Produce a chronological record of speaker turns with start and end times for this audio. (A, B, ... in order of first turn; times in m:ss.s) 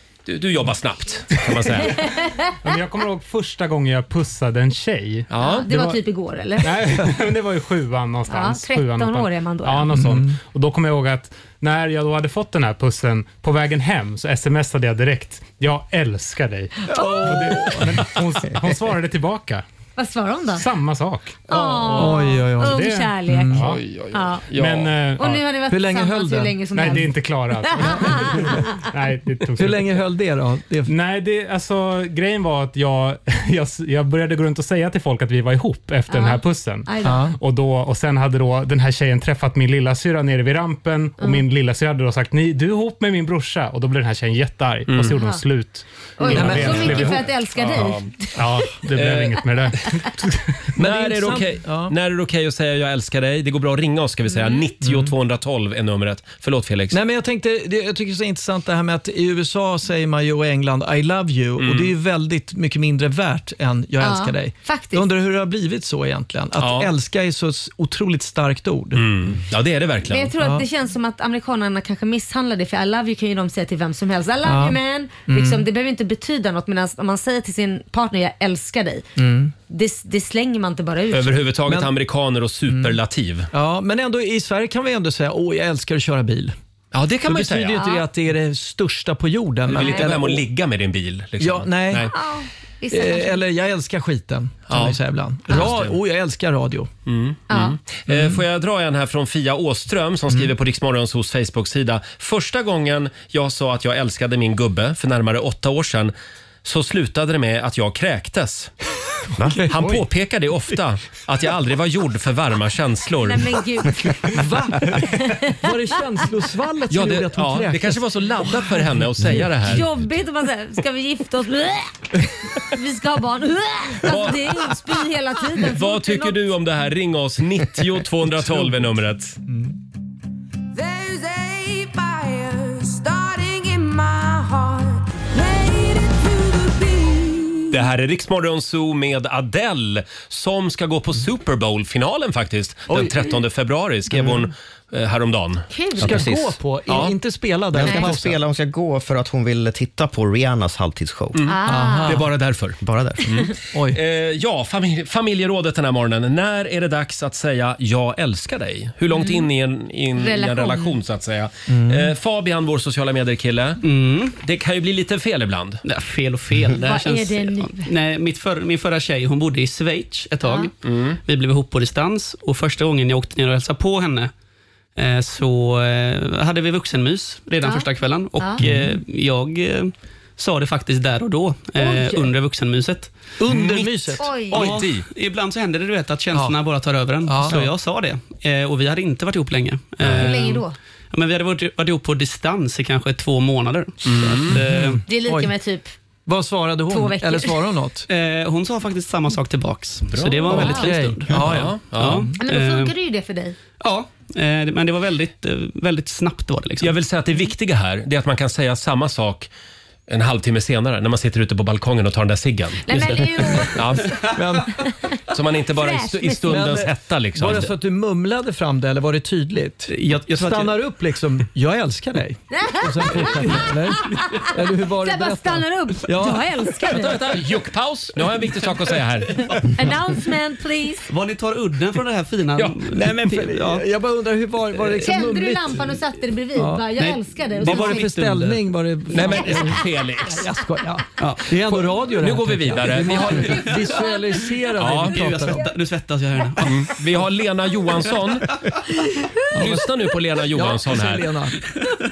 0:00.3-0:02.0 A
0:02.0-0:02.5 B
0:02.6-0:06.0 C
0:05.3-0:05.7 A
0:05.4-0:06.8 B
0:06.6-0:19.6 C
0:08.3-0:09.9 B
0:09.9-0:10.4 D
0:16.9-0:18.1 D
0:16.9-0:17.7 B
0:20.0-0:20.7 B
0:20.6-0:22.1 C
0:21.5-0:23.6 B
0:21.9-0:23.7 D
0:22.6-0:23.8 C
0:23.6-0:24.9 A
0:24.1-0:24.4 B
0:24.5-0:25.5 C
0:25.2-0:27.1 B
0:25.7-0:27.1 D
0:26.7-0:30.0 C
0:27.6-0:28.7 B
0:27.9-0:28.2 D
0:29.6-0:30.9 D
0:30.9-0:47.2 C
0:36.1-0:37.2 B
0:37.0-0:37.4 D
0:46.2-0:48.6 B
0:46.3-0:47.2 D
0:46.4-0:47.0 A
0:47.6-0:48.1 A
0:48.3-0:50.4 C
0:48.9-0:49.4 A
0:50.8-0:52.0 D
0:50.8-0:57.0 A
0:54.3-0:54.7 B
0:54.8-0:55.1 D
0:56.9-1:09.1 D
1:01.6-1:01.9 A
1:04.0-1:05.1 B
1:06.6-1:06.9 A
1:09.0-1:10.3 A
1:10.1-1:19.1 B
1:10.4-1:10.7 D
1:14.4-1:15.6 D
1:19.2-1:19.5 D
1:19.7-1:21.4 B
1:21.1-1:23.5 A
1:22.7-1:23.0 D
1:23.5-1:26.6 D
1:26.9-1:27.8 A
1:27.2-1:30.5 D
1:27.7-1:28.0 B
1:29.7-1:32.1 A
1:29.8-1:30.1 B
1:31.4-1:32.2 D
1:32.0-1:33.4 B
1:32.9-1:36.9 D
1:34.7-1:36.0 A
1:37.1-1:46.1 A
1:37.5-1:37.8 B
1:38.1-1:38.4 D
1:46.6-1:48.7 A
1:49.4-1:50.0 D
1:49.7-1:53.6 A
1:53.2-1:55.7 B
1:54.3-1:59.5 D
1:56.9-1:59.9 A
1:59.6-2:06.4 B
2:04.0-2:04.8 A
2:05.6-2:09.4 A
2:10.7-2:17.9 E
2:17.7-2:25.7 A
2:22.9-2:23.3 D
2:24.1-2:24.4 D
2:25.7-2:26.3 B
2:26.0-2:26.6 F
2:26.0-2:28.4 D
2:27.7-2:31.4 F
2:31.3-2:43.8 A
2:31.5-2:32.2 B
2:31.6-2:32.3 D
2:32.8-2:33.4 F
2:33.7-2:34.0 D
2:39.1-2:39.5 B
2:40.2-2:41.0 B
2:41.7-2:42.1 D
2:43.8-2:44.4 G
2:44.4-2:45.8 A
2:45.8-2:54.3 G
2:46.8-2:47.9 B
2:50.4-2:50.7 B
2:50.8-2:51.2 A
2:55.0-3:03.2 G
2:58.6-2:59.0 D
3:01.8-3:02.3 B
3:03.4-3:04.3 D
3:03.5-3:05.1 A
3:04.2-3:04.7 B
3:04.4-3:15.0 G
3:07.3-3:07.7 D
3:10.0-3:10.4 A
3:10.2-3:10.8 B
3:14.0-3:14.6 A
3:14.5-3:15.5 D
3:15.1-3:16.0 B
3:16.3-3:18.1 D
3:16.9-3:17.6 B
3:18.1-3:22.9 G
3:20.1-3:22.3 A
3:20.5-3:22.4 D
3:20.5-3:20.9 B
3:22.4-3:23.6 B
3:23.8-3:26.9 G
3:26.8-3:29.5 A
3:30.1-3:33.2 A
3:32.9-3:33.9 B
3:32.9-3:33.7 G
3:33.7-3:34.1 A
3:34.4-3:34.7 D
3:35.3-3:37.7 A
3:35.8-3:36.7 B
3:36.5-3:46.7 D
3:39.9-3:40.8 G
3:42.5-3:44.4 B
3:45.0-3:47.2 B
3:46.8-3:49.4 A
3:49.7-3:51.1 B
3:51.1-3:53.9 G
3:52.9-3:56.0 D
3:55.0-3:58.1 B
3:56.6-3:56.9 D
3:57.0-3:59.4 G
3:57.6-4:05.7 D
3:59.1-4:00.5 A
4:01.2-4:02.0 G
4:02.2-4:03.7 A
4:03.2-4:04.0 G
4:03.9-4:04.2 B
4:04.8-4:05.2 A
4:05.0-4:07.0 G
4:06.6-4:08.5 A
4:09.5-4:09.9 D
4:09.5-4:11.3 A
4:10.5-4:11.6 D